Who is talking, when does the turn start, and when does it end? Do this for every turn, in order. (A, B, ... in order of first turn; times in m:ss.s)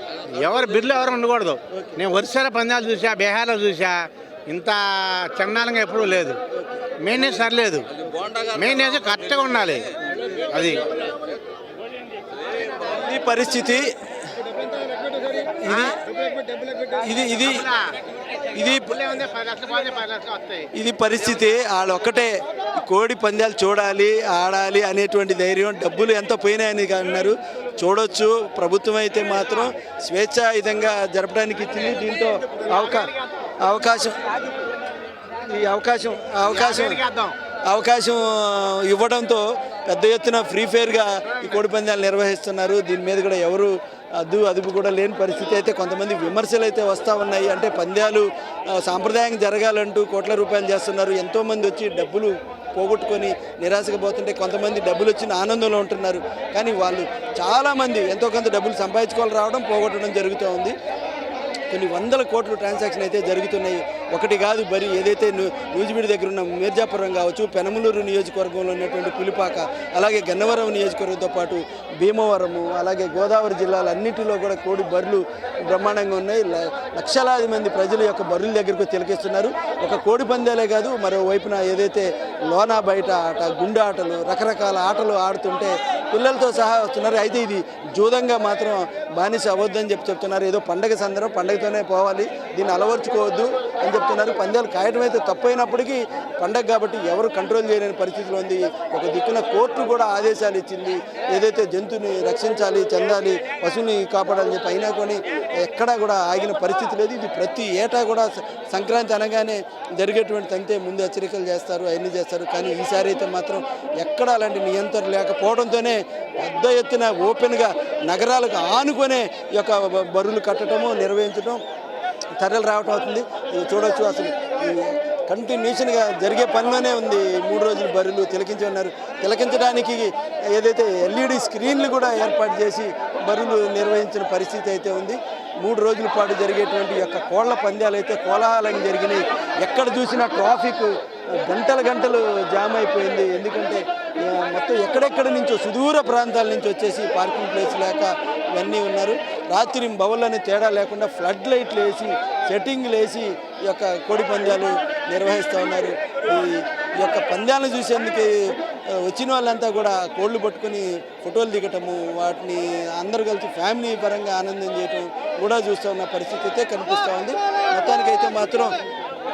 0:00.3-0:06.4 A
0:01.7-0:02.0 B
0:06.5-0:07.3 B
0:07.0-0:07.9 A
0:08.5-0:09.9 A
0:10.5-0:10.8 A
0:12.9-0:13.9 B
0:15.6-0:16.0 B
0:15.7-0:15.9 A
0:17.0-0:17.7 B
0:17.4-0:17.8 A
0:18.6-0:19.1 B
0:18.6-0:20.7 A
0:20.8-0:22.3 B
0:22.8-0:33.1 B
0:33.6-0:34.2 B
0:35.5-0:37.0 B
0:36.5-0:37.4 A
0:37.7-1:00.7 B
1:01.7-2:01.6 B
2:02.4-2:20.9 B
2:21.4-2:38.3 B
2:38.9-2:48.7 B